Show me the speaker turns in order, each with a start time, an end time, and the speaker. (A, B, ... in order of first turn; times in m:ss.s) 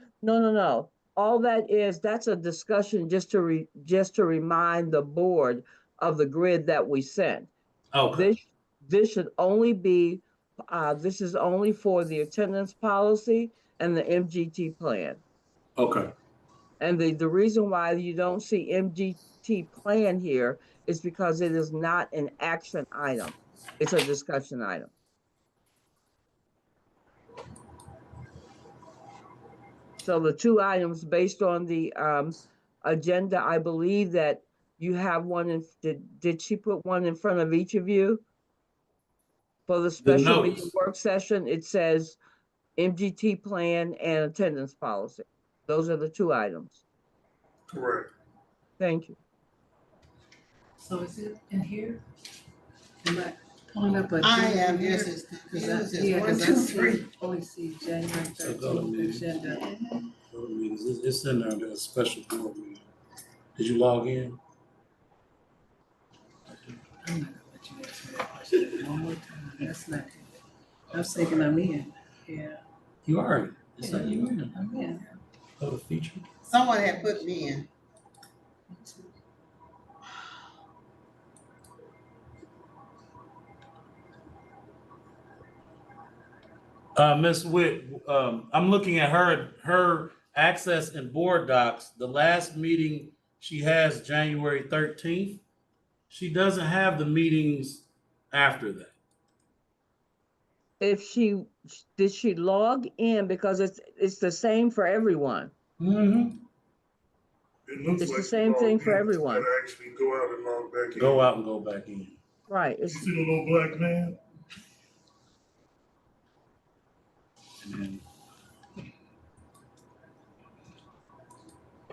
0:00.2-0:07.5 A
0:07.9-0:08.3 B
0:08.1-0:15.2 A
0:15.8-0:16.1 B
0:16.8-0:24.9 A
0:30.0-0:38.2 A
0:39.7-0:42.2 A
0:40.0-0:40.7 B
0:42.8-0:46.8 A
0:47.7-0:48.1 C
0:48.8-0:49.2 A
0:50.8-0:52.0 D
0:53.0-0:59.6 D
0:54.2-0:57.1 E
0:58.4-0:59.4 B
0:59.4-1:00.1 E
1:00.3-1:02.9 B
1:03.6-1:04.4 B
1:06.9-1:10.3 D
1:10.9-1:12.6 D
1:13.1-1:14.6 B
1:13.8-1:15.2 D
1:15.6-1:16.2 B
1:16.4-1:17.7 E
1:16.8-1:17.2 D
1:18.8-1:19.0 D
1:27.0-1:35.4 B
1:36.1-1:39.0 B
1:40.8-1:45.5 A
1:45.8-1:46.4 B
1:47.7-1:51.3 C
1:48.0-1:49.5 A
1:51.0-1:52.2 B
1:52.5-1:53.1 A
1:52.8-1:54.2 C
1:57.6-1:58.0 B